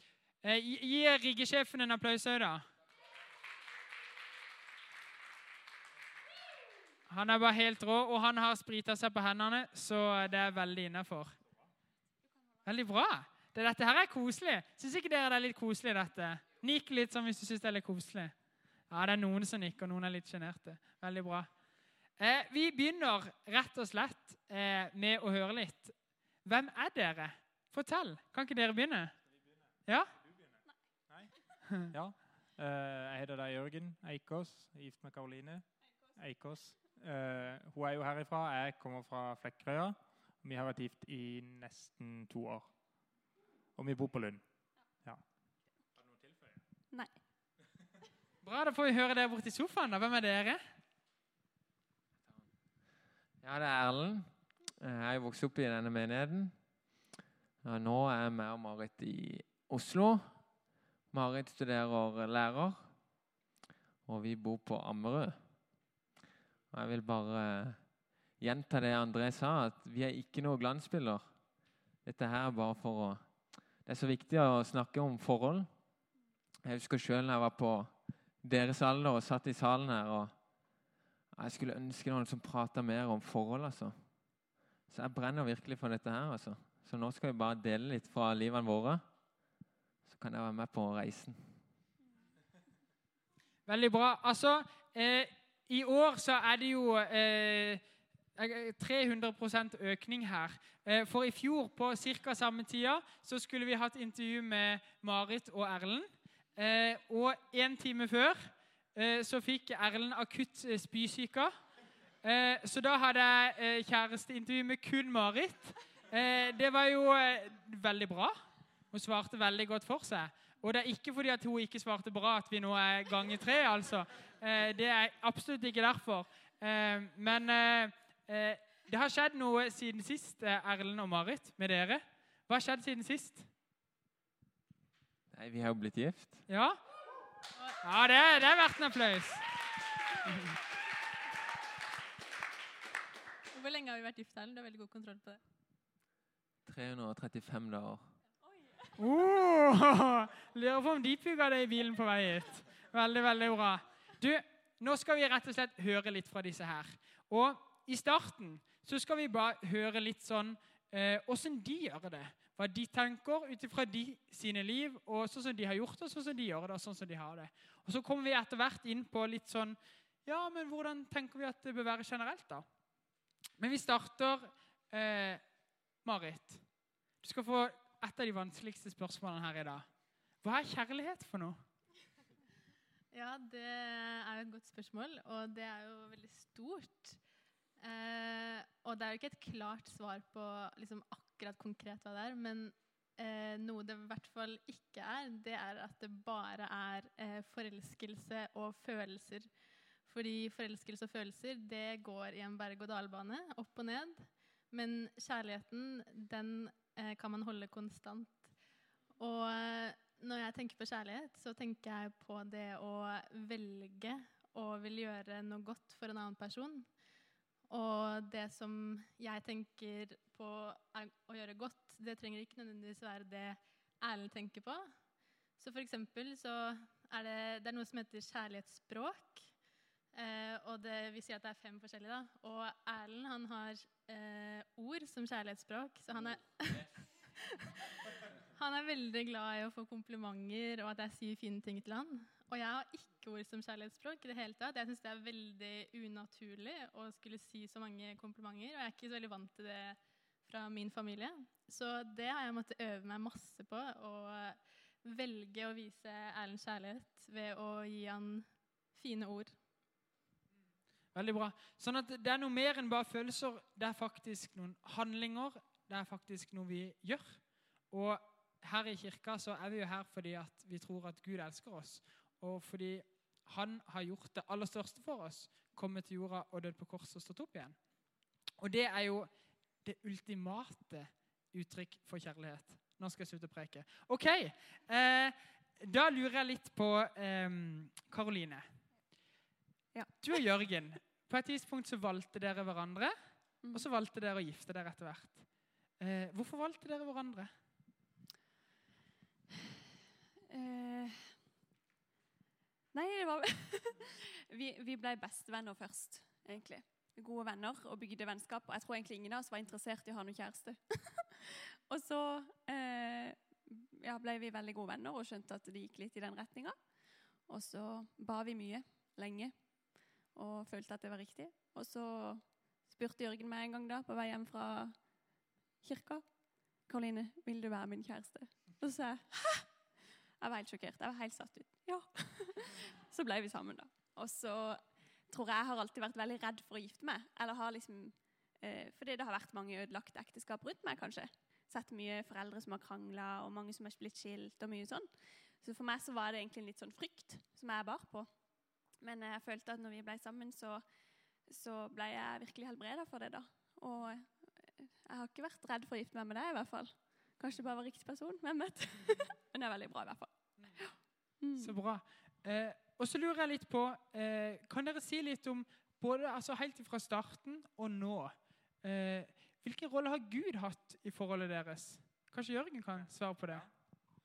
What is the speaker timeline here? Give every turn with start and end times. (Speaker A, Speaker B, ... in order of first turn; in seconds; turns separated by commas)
Speaker A: 0.4-2.6, Speaker A: 7.1-11.3, Speaker A: 12.6-18.3, Speaker A: 18.9-21.5, Speaker A: 22.2-29.1, Speaker A: 29.9-30.1, Speaker B: 31.1-42.7, Speaker B: 43.8-44.4, Speaker B: 46.0-46.6, Speaker A: 48.4-50.6, Speaker C: 53.4-56.5, Speaker C: 57.6-60.3, Speaker C: 61.1-62.9, Speaker C: 64.0-65.4, Speaker C: 66.7-67.9, Speaker C: 68.4-71.3, Speaker C: 72.0-75.7, Speaker C: 76.6-80.3, Speaker C: 81.3-84.0, Speaker C: 84.9-89.0, Speaker C: 90.0-91.6, Speaker A: 93.7-97.8, Speaker A: 98.3-111.5, Speaker A: 112.2-118.4, Speaker A: 118.9-133.5, Speaker C: 135.3-136.4, Speaker A: 136.5-136.8, Speaker A: 137.8-139.4, Speaker A: 140.2-140.5, Speaker D: 143.5-145.4, Speaker C: 146.6-148.1, Speaker A: 149.0-172.6, Speaker A: 173.6-175.4, Speaker A: 176.0-176.6, Speaker A: 177.2-181.6, Speaker D: 183.1-187.2, Speaker D: 187.8-199.5, Speaker D: 200.1-208.5, Speaker D: 209.2-216.9, Speaker D: 217.7-224.8, Speaker D: 225.6-229.5, Speaker D: 230.1-237.7, Speaker D: 238.5-259.6, Speaker A: 261.1-277.8, Speaker A: 278.6-288.8, Speaker E: 289.9-290.2, Speaker A: 290.2-297.5, Speaker E: 300.5-301.4, Speaker E: 302.9-316.8, Speaker E: 317.4-325.2, Speaker E: 325.8-326.2, Speaker E: 326.8-329.7, Speaker E: 330.4-348.3, Speaker E: 348.8-350.8, Speaker E: 351.4-361.8, Speaker A: 361.6-373.7